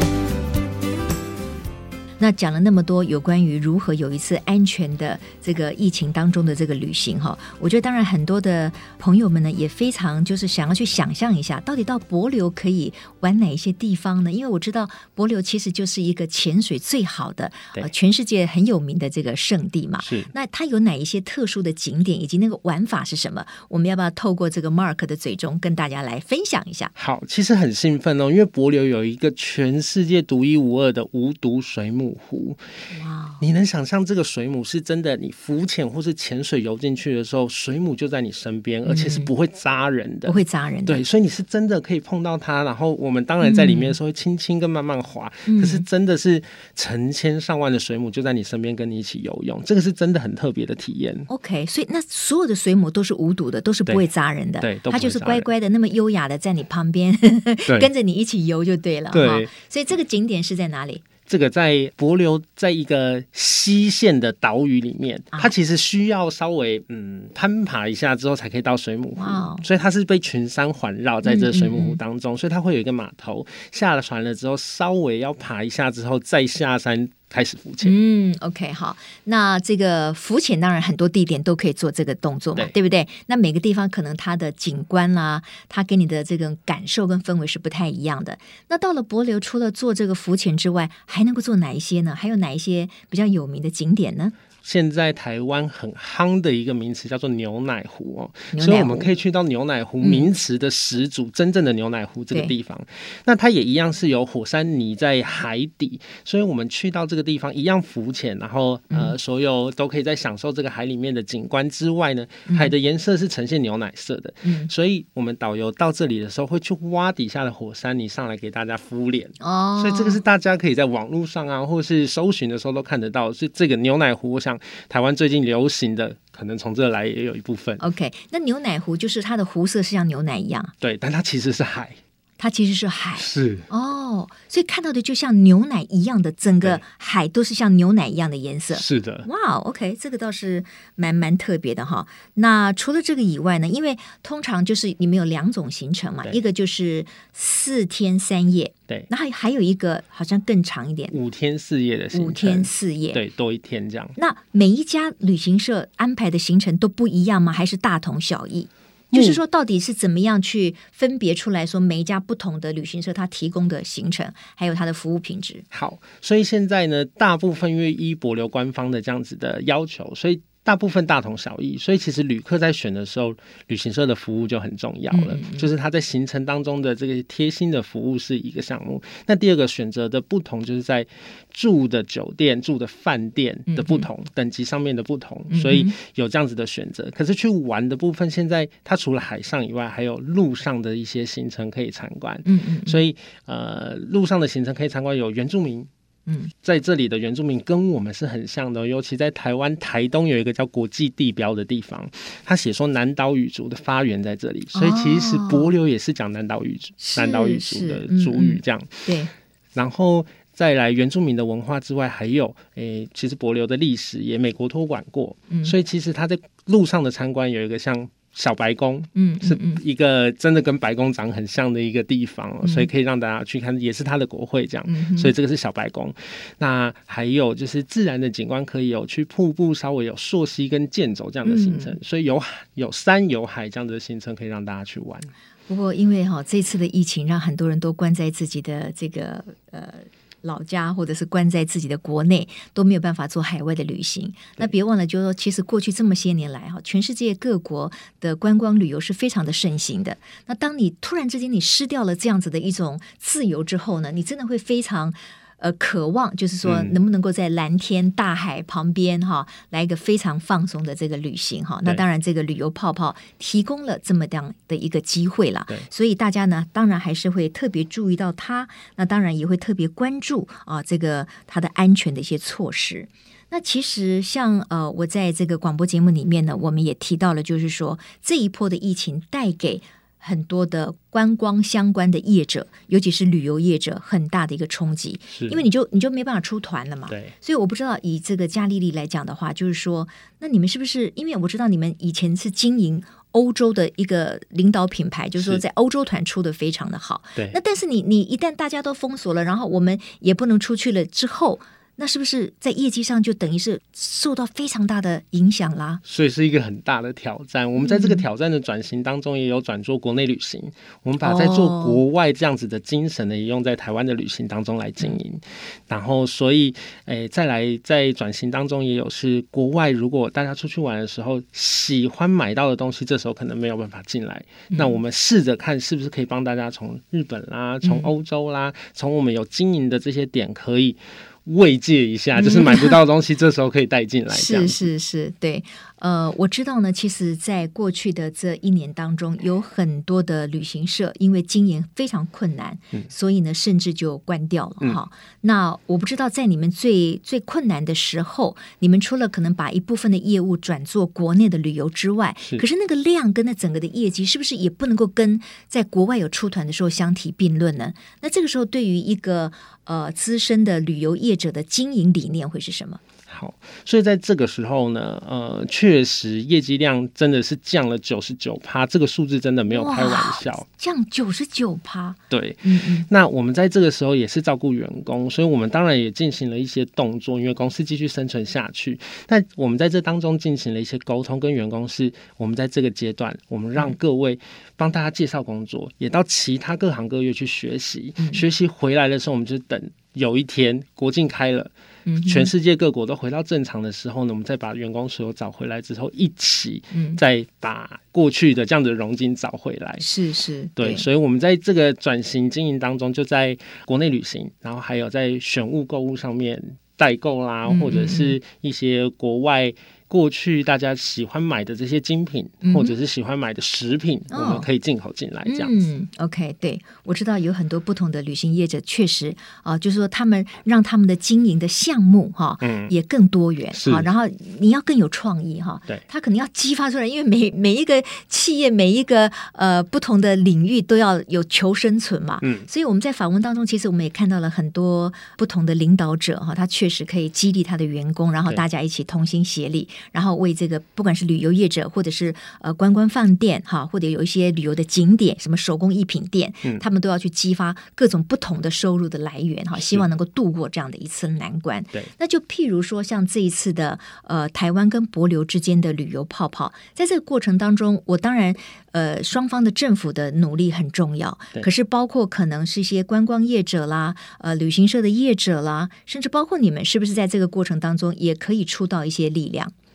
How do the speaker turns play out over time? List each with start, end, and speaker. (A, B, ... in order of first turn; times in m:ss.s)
0:02.2-0:26.9 A
0:20.0-0:20.3 B
0:27.0-0:32.6 B
0:32.9-0:33.4 A
0:33.4-0:51.3 B
0:38.8-0:39.3 A
0:40.3-0:41.0 A
0:43.4-0:44.0 A
0:45.4-0:45.8 A
0:51.3-1:01.0 A
0:54.6-0:55.5 B
0:59.1-0:59.5 B
1:01.3-1:17.9 B
1:09.2-1:09.6 A
1:11.2-1:12.0 A
1:17.8-1:34.4 A
1:34.6-2:07.8 B
1:38.5-1:39.1 A
1:40.0-1:40.3 A
1:48.9-1:49.1 A
1:52.5-1:52.7 A
1:54.4-1:54.7 A
1:59.4-2:00.2 A
2:07.8-2:10.7 A
2:10.8-2:12.0 B
2:12.4-2:31.2 A
2:13.2-2:13.7 B
2:18.7-2:19.3 B
2:31.1-2:34.1 B
2:32.1-2:33.2 A
2:34.2-2:45.6 A
2:39.1-2:39.4 B
2:45.7-3:15.9 B
2:55.1-2:55.7 A
3:03.7-3:04.1 A
3:05.5-3:06.0 A
3:12.4-3:13.0 A
3:16.3-3:16.5 A
3:16.6-3:29.1 B
3:24.7-3:25.7 A
3:27.0-3:29.3 A
3:29.7-3:55.3 B
3:35.5-3:35.7 A
3:39.1-3:39.8 A
3:42.6-3:42.9 A
3:44.9-3:45.3 A
3:51.4-3:52.0 A
3:55.7-5:06.0 A
4:16.6-4:16.9 B
4:45.3-4:45.7 B
4:47.1-4:47.3 B
4:55.4-4:55.6 B
5:06.0-5:34.9 B
5:07.8-5:08.2 A
5:11.2-5:12.0 A
5:24.7-5:25.0 A
5:27.8-5:28.1 A
5:32.4-5:33.0 A
5:34.3-6:03.0 A
6:03.3-6:10.6 B
6:09.7-6:13.1 A
6:12.3-6:31.7 B
6:32.0-6:32.5 A
6:32.2-6:40.0 B
6:36.9-6:37.2 A
6:40.0-6:41.0 A
6:40.8-6:55.7 B
6:47.6-6:48.4 A
6:52.6-6:53.0 A
6:54.3-6:54.7 A
6:55.4-7:49.7 A
7:02.6-7:02.9 B
7:03.7-7:04.1 B
7:12.4-7:12.7 B
7:29.7-7:30.0 B